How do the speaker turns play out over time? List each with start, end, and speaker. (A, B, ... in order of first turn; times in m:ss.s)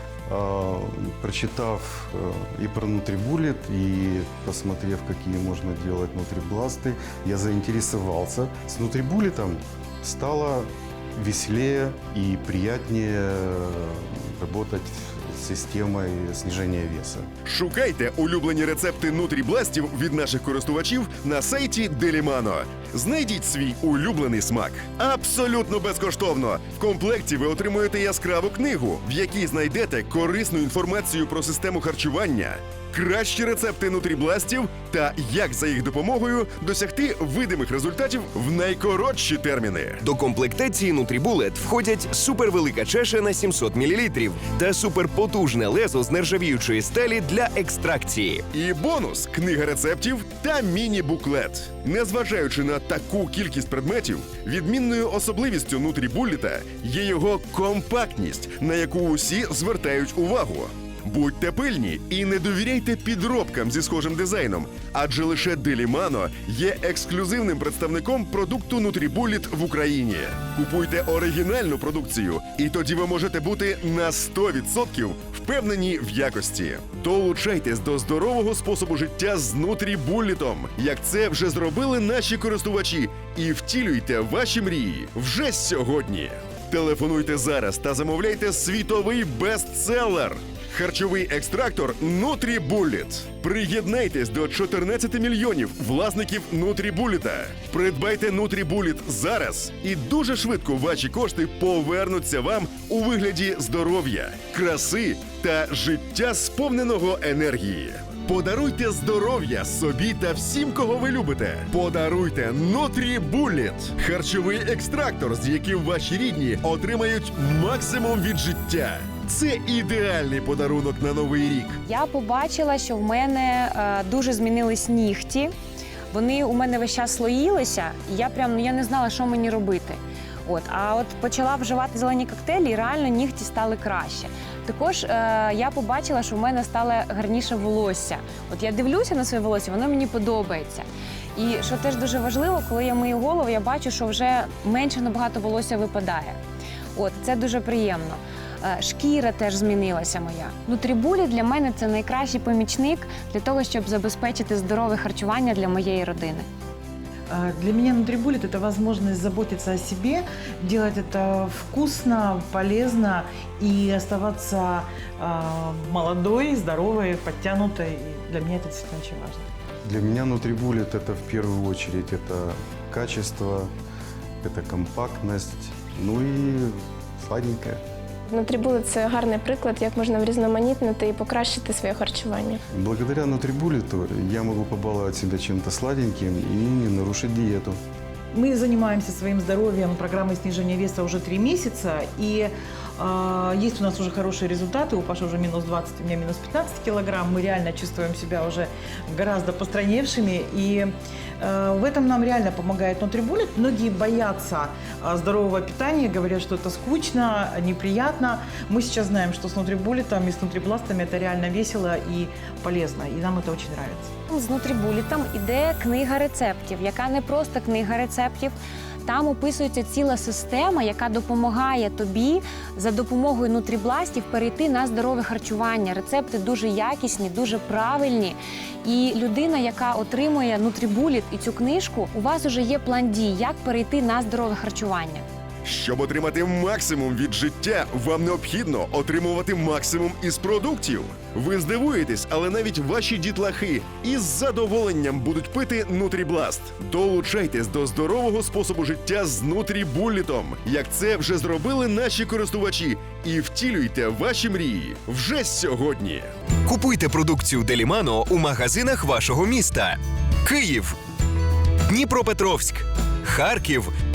0:00.3-0:17.3 A
0:17.4-0:40.0 B
0:40.0-0:48.4 C
0:48.5-2:01.8 B
2:01.8-2:05.5 D
2:06.1-2:26.4 D
2:26.9-2:36.5 D
2:37.3-2:49.5 E
2:49.8-2:53.7 A
2:54.4-2:57.8 A
2:58.3-3:02.6 F
3:02.7-3:07.8 A
3:08.3-3:34.1 E
3:34.3-3:38.5 D
3:39.0-3:55.2 D
3:55.6-4:16.3 B
4:16.6-4:21.0 C
4:21.9-4:23.9 C